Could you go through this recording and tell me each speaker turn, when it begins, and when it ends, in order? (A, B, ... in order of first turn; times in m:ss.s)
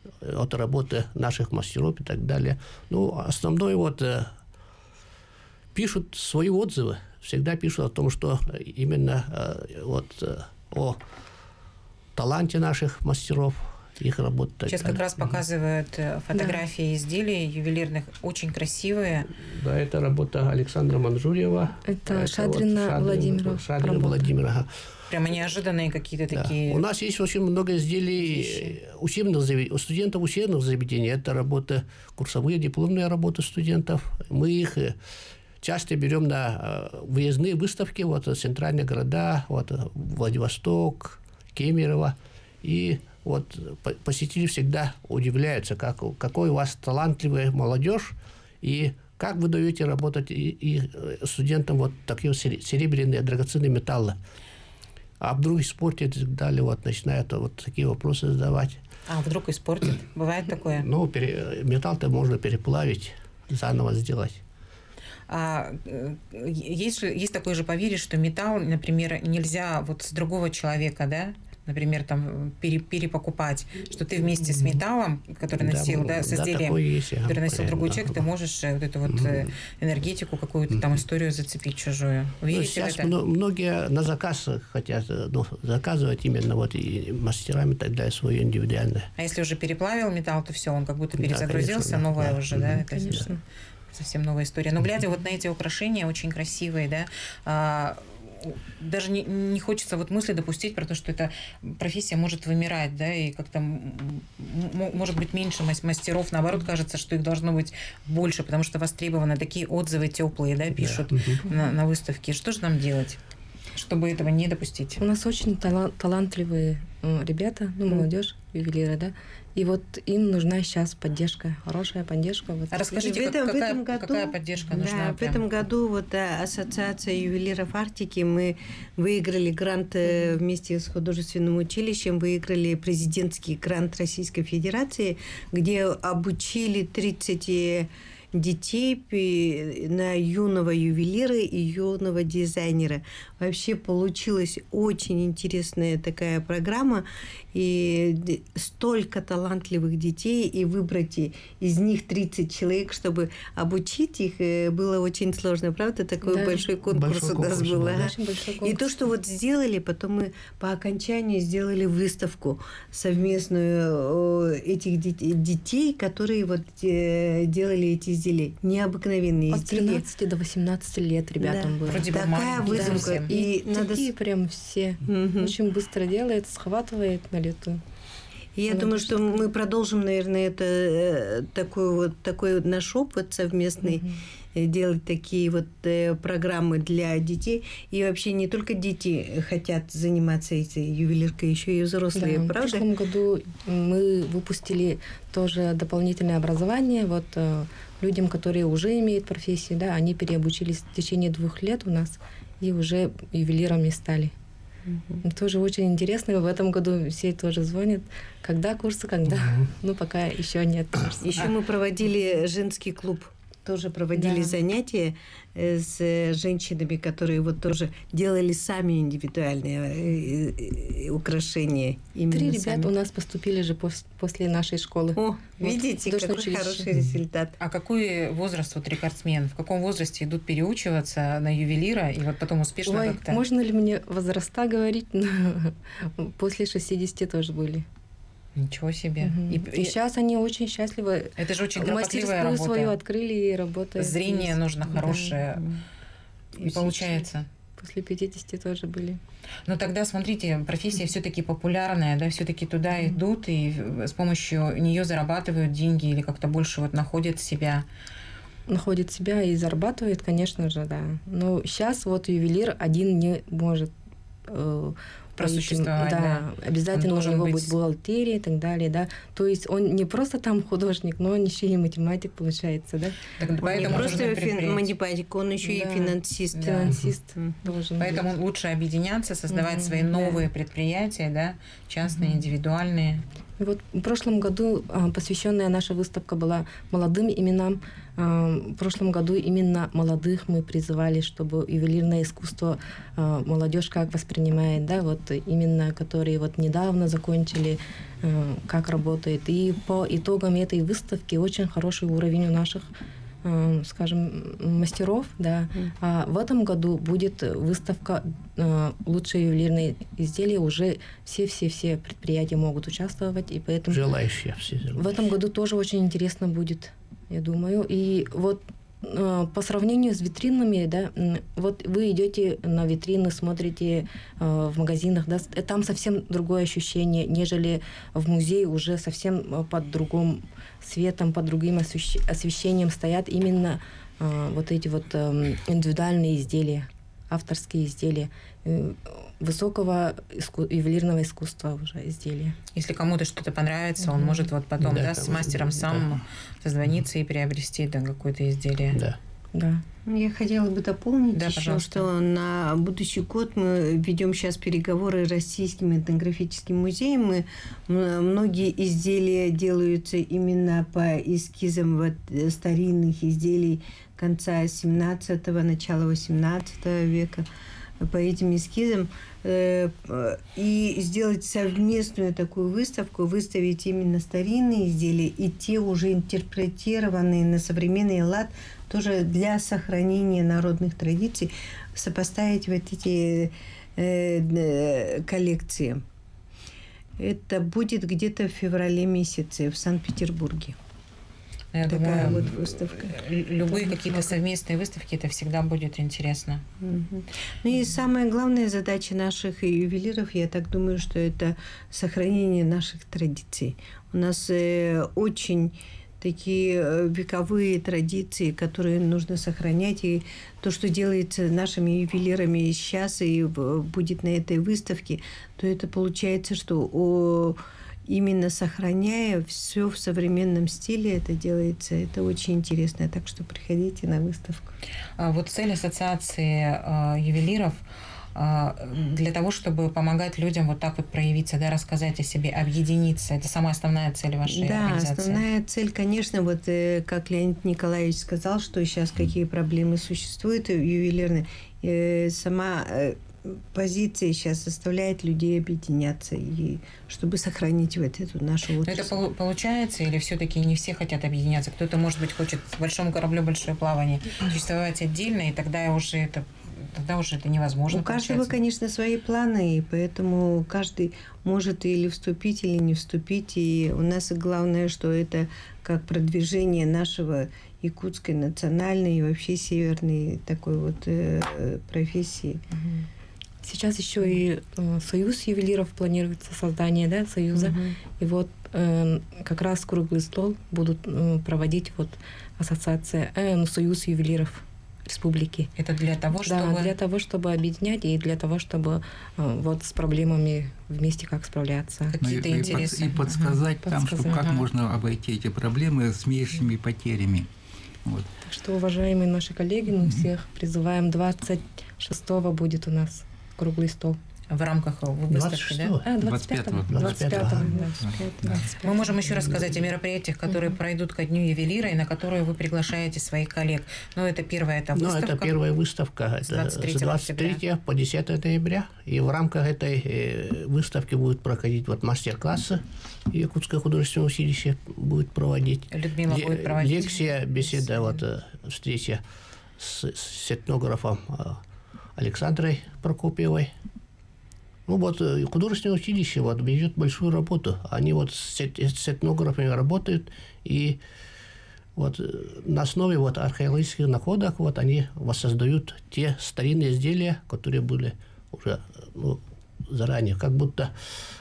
0:00.2-0:04.3 A
0:05.8-0:11.0 A
0:12.2-0:15.2 A
0:14.7-0:19.3 B
0:16.3-0:16.6 C
0:19.4-0:24.7 A
0:21.9-0:24.3 C
0:25.1-0:26.8 B
0:26.3-0:35.0 A
0:28.2-0:28.7 B
0:35.6-0:54.2 A
0:55.2-0:58.8 A
0:59.1-1:00.9 B
1:00.7-1:04.4 A
1:05.3-1:23.1 B
1:15.6-1:18.2 A
1:19.1-1:19.5 A
1:22.5-1:29.1 A
1:29.2-1:33.4 B
1:31.2-1:33.3 A
1:33.0-1:33.4 C
1:33.9-1:53.2 B
1:50.8-1:51.4 A
1:53.7-1:55.0 B
1:55.0-2:03.0 C
2:02.7-2:05.5 B
2:02.9-2:50.0 D
2:36.2-2:36.6 C
2:36.9-2:38.1 A
2:37.9-2:38.9 C
2:49.5-2:57.8 C
2:51.4-2:54.1 D
2:51.9-2:53.3 B
2:55.1-2:55.5 D
2:58.6-3:12.9 D
2:58.7-2:59.5 C
3:03.8-3:04.2 C
3:12.2-3:24.3 C
3:24.9-3:25.2 D
3:25.2-3:31.5 C
3:31.2-3:42.9 D
3:34.1-3:34.6 C
3:42.3-3:46.9 C
3:45.2-3:47.6 D
3:47.6-3:53.4 B
3:52.9-3:57.8 C
3:58.6-3:59.9 B
3:59.2-4:05.4 C
4:01.4-4:03.0 B
4:04.0-4:05.7 B
4:05.6-4:05.8 D
4:06.6-4:07.5 B
4:07.8-4:09.2 C
4:09.7-4:17.8 B
4:18.7-4:23.9 C
4:24.5-4:34.3 C
4:25.4-4:27.7 B
4:33.4-4:34.9 B
4:33.6-4:37.6 D
4:35.6-4:38.3 C
4:36.6-4:37.0 B
4:38.0-4:43.2 B
4:39.5-4:40.4 C
4:43.6-5:02.9 C
5:03.4-5:14.1 C
5:13.9-5:15.0 A
5:15.0-5:42.6 C
5:42.8-5:49.0 B
5:44.1-5:44.4 C
5:44.8-5:46.1 A
5:48.9-5:49.2 A
5:49.5-5:49.8 C
5:50.1-6:07.5 D
5:51.3-5:52.1 B
6:08.0-6:26.0 D
6:27.2-6:30.8 D
6:31.7-6:36.6 B
6:31.9-6:34.4 D
6:36.8-7:04.8 D
7:05.2-7:07.8 B
7:08.4-7:15.4 B
7:14.5-7:29.2 D
7:28.8-7:38.6 B
7:37.9-7:52.6 D
7:52.8-7:53.0 C
7:53.6-8:05.7 C
7:57.6-7:58.0 D
8:05.8-8:06.9 B
8:06.4-8:12.2 C
8:12.1-8:13.6 B
8:12.2-8:17.5 E
8:13.8-8:14.4 C
8:14.4-8:14.7 B
8:18.4-8:24.2 C
8:24.5-8:26.0 B
8:25.3-8:26.0 A
8:26.0-8:28.6 C
8:26.2-8:28.8 E
8:26.9-8:27.7 A
8:28.1-8:28.5 D
8:28.5-8:35.6 B
8:34.9-8:49.2 A
8:36.5-8:37.6 B
8:45.9-8:48.0 B
8:49.8-8:51.6 A
8:52.2-8:53.7 A
8:54.9-9:01.0 A
9:02.0-9:11.2 A